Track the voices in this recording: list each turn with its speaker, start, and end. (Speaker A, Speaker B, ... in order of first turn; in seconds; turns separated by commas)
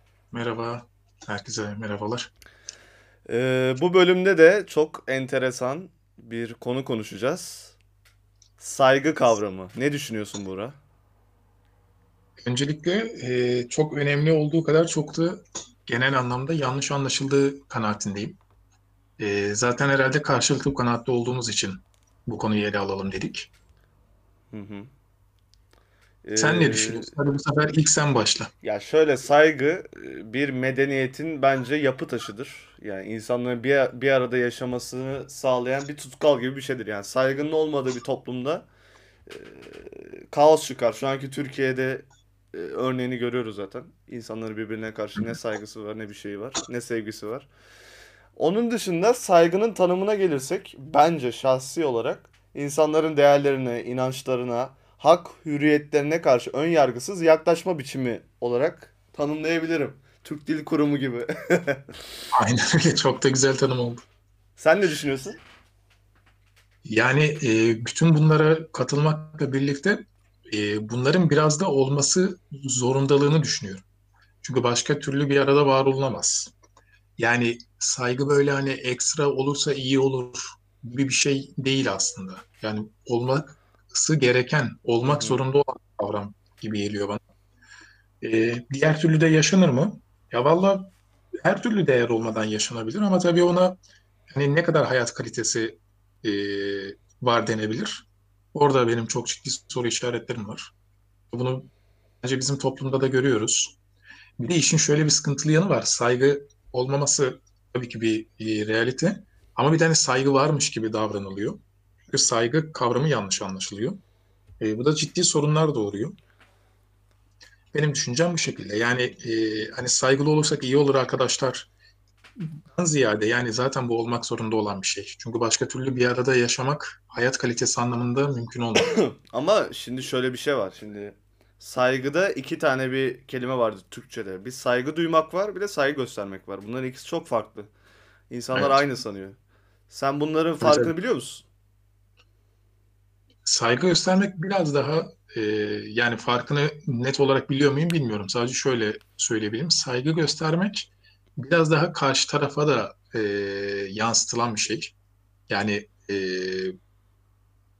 Speaker A: 0.3-2.3, Speaker B: 3.3-7.8, Speaker B: 8.6-10.8, Speaker A: 12.4-18.4, Speaker A: 19.2-23.5, Speaker B: 24.5-24.9, Speaker B: 26.2-27.1, Speaker A: 26.4-28.5, Speaker B: 28.6-38.7, Speaker B: 39.3-47.5, Speaker B: 48.4-62.0, Speaker A: 62.3-64.0, Speaker B: 64.6-65.4, Speaker A: 66.8-73.8, Speaker A: 74.4-76.5, Speaker A: 77.2-87.2, Speaker B: 85.0-85.4, Speaker A: 88.2-100.7, Speaker A: 101.3-101.7, Speaker A: 102.2-103.8, Speaker A: 104.4-114.0, Speaker A: 114.6-116.2, Speaker A: 117.7-121.7, Speaker A: 122.4-129.0, Speaker B: 128.8-137.7, Speaker B: 138.3-139.4, Speaker A: 138.5-138.8, Speaker B: 139.9-141.5, Speaker A: 140.6-140.9, Speaker A: 143.4-154.9, Speaker A: 155.5-156.8